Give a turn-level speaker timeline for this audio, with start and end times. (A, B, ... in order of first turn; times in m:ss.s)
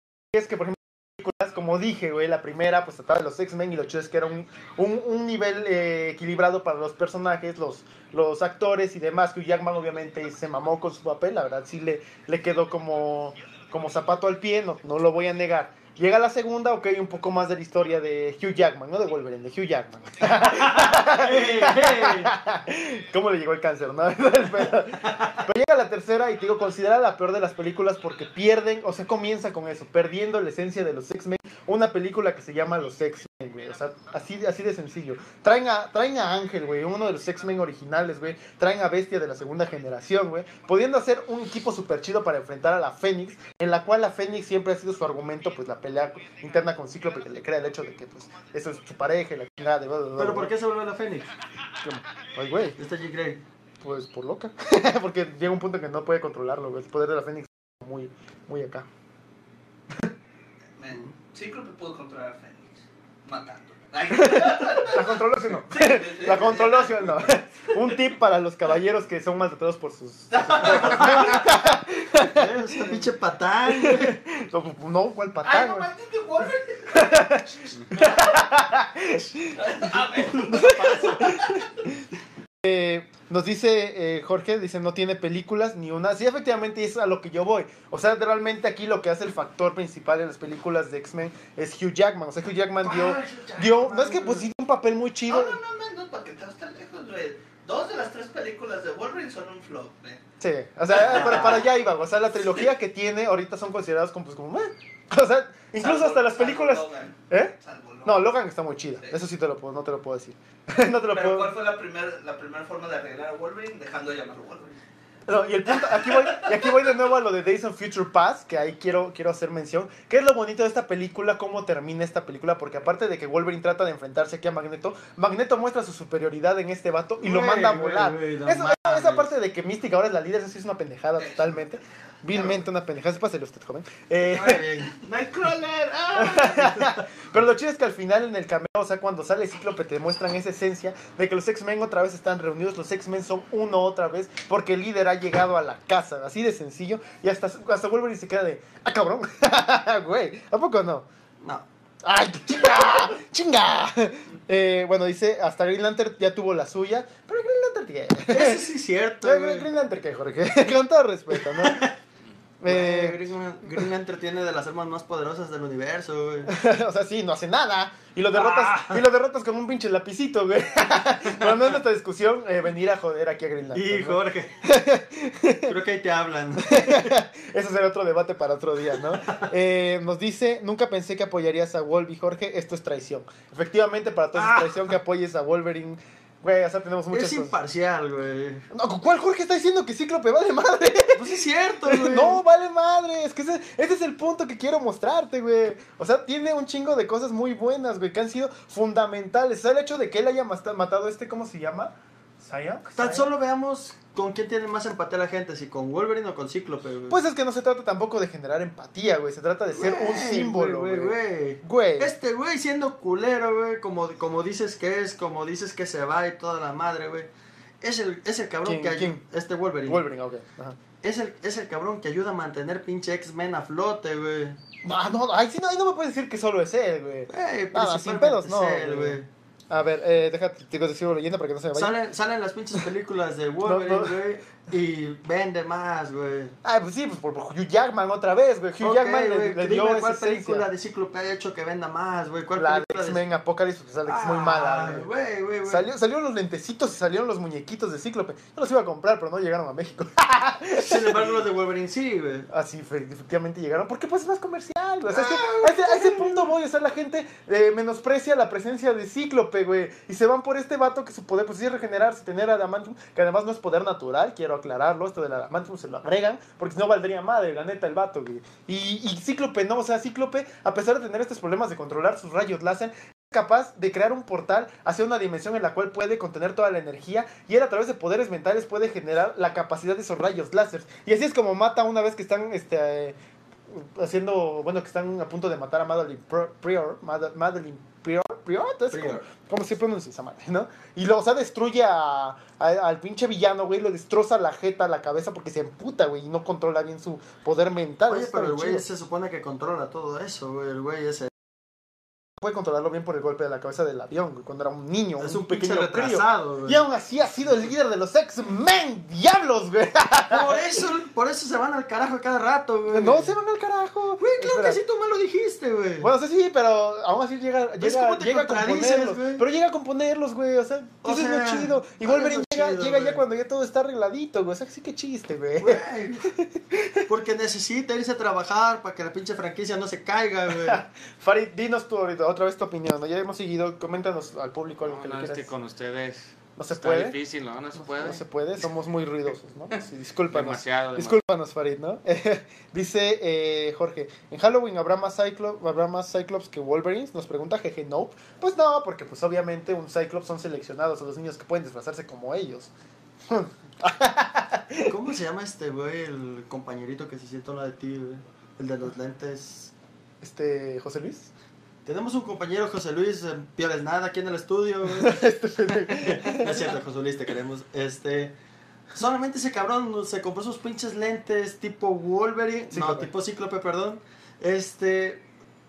0:00.3-0:50.5 A
0:20.5-0:22.3 B
0:50.2-0:51.3 B
0:51.8-0:52.8 A
0:52.8-0:53.4 B
0:53.8-0:58.9 A
1:00.8-1:07.9 C
1:00.9-1:01.1 B
1:04.1-1:13.1 A
1:10.3-1:11.5 C
1:10.8-1:11.4 B
1:12.2-1:14.2 B
1:13.7-1:15.9 A
1:15.4-1:18.5 C
1:16.9-1:19.6 A
1:19.5-1:21.8 C
1:20.4-1:21.7 A
1:22.6-1:35.6 A
1:32.8-1:34.4 B
1:35.3-1:40.2 C
1:40.4-1:51.5 A
1:41.0-1:41.6 C
1:45.8-1:48.3 C
1:51.1-1:54.8 C
1:55.3-2:14.6 A
1:55.7-1:56.9 C
2:07.2-2:09.3 B
2:11.2-2:11.7 C
2:14.2-2:14.9 B
2:15.0-2:16.9 C
2:16.1-2:31.0 A
2:32.0-2:38.6 A
2:38.3-2:39.7 B
2:39.2-2:41.9 A
2:41.5-2:41.9 B
2:42.6-2:43.2 A
2:42.6-2:46.5 B
2:46.5-2:55.7 A
2:48.3-2:49.0 B
2:53.7-2:54.5 B
2:55.7-2:57.1 B
2:56.6-3:07.5 A
3:04.3-3:04.9 B
3:07.1-3:08.6 B
3:08.7-3:23.3 A
3:11.1-3:12.4 B
3:23.0-3:27.2 B
3:27.1-3:32.1 A
3:29.7-3:40.0 B
3:38.6-3:39.2 A
3:39.8-3:40.8 A
3:41.0-3:44.6 B
3:44.8-3:51.9 A
3:47.3-3:49.3 B
3:51.7-3:56.6 B
3:53.6-3:54.2 A
3:56.6-4:00.7 A
3:58.8-4:03.2 B
4:02.6-4:05.1 A
4:04.0-4:05.9 B
4:05.6-4:11.4 A
4:10.8-4:12.5 B
4:12.5-4:43.2 A
4:15.1-4:16.5 B
4:43.7-4:58.8 A
4:48.9-4:49.3 B
4:58.1-5:01.3 B
5:02.4-5:10.6 A
5:05.2-5:06.8 B
5:10.3-5:13.3 B
5:12.9-5:14.8 A
5:14.2-5:16.1 B
5:16.0-5:27.0 A
5:17.8-5:19.4 B
5:21.0-5:23.2 B
5:25.6-5:26.3 B
5:27.1-5:30.8 B
5:30.6-5:35.5 A
5:34.8-5:38.2 D
5:36.6-5:37.2 A
5:37.8-5:52.7 A
5:40.3-5:41.2 D
5:53.3-5:54.9 A
5:54.8-5:59.7 B
6:00.2-6:01.3 A
6:01.8-6:05.2 B
6:05.0-6:06.6 A
6:05.8-6:08.3 B
6:08.9-6:15.2 B
6:12.7-6:13.1 A